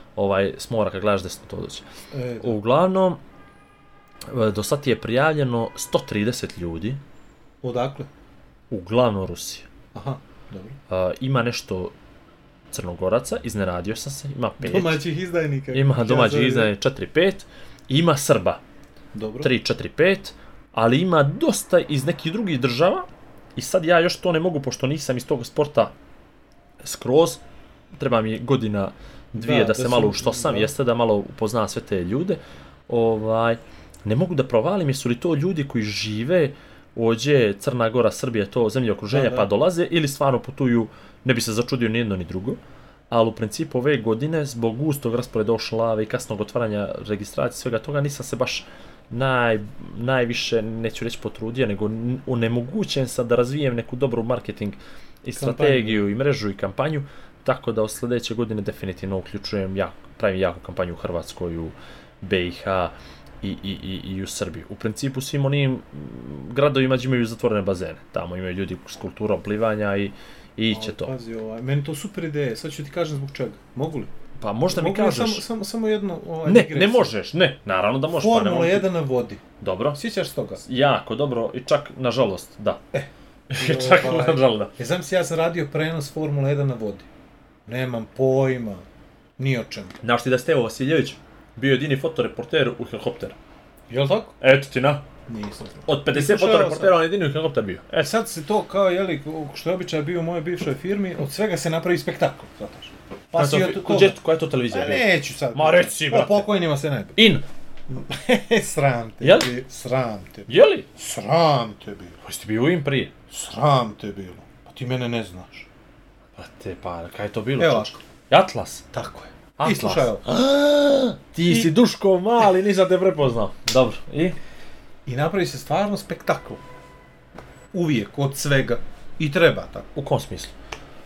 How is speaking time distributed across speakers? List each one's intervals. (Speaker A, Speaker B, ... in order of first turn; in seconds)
Speaker A: 0.2-1.9, 2.4-3.2, 4.3-7.0, 8.7-9.7, 10.9-11.9, 12.7-15.0, 15.7-18.6, 19.4-25.9, 26.8-27.4, 27.9-71.1, 74.4-75.5, 76.5-78.9, 79.6-80.0, 80.6-82.8, 83.5-84.7, 90.0-93.4, 94.4-95.0, 95.9-98.1, 103.4-106.5, 107.2-107.5, 109.2-109.5, 110.5-110.9, 112.2-113.1, 116.4-118.9, 119.6-124.4, 129.9-130.5
Speaker B: 2.1-2.6, 7.6-8.1, 9.9-10.8, 14.6-16.7, 19.1-19.5, 29.4-30.7, 39.1-39.5, 55.4-56.1, 70.7-74.1, 74.7-77.1, 78.1-79.4, 80.0-80.6, 82.9-87.1, 87.7-88.9, 89.4-90.0, 93.9-94.3, 95.3-97.0, 98.0-107.2, 107.9-112.2, 113.3-115.7, 117.6-118.0, 118.9-120.2, 121.5-121.7, 125.1-126.6, 127.7-129.9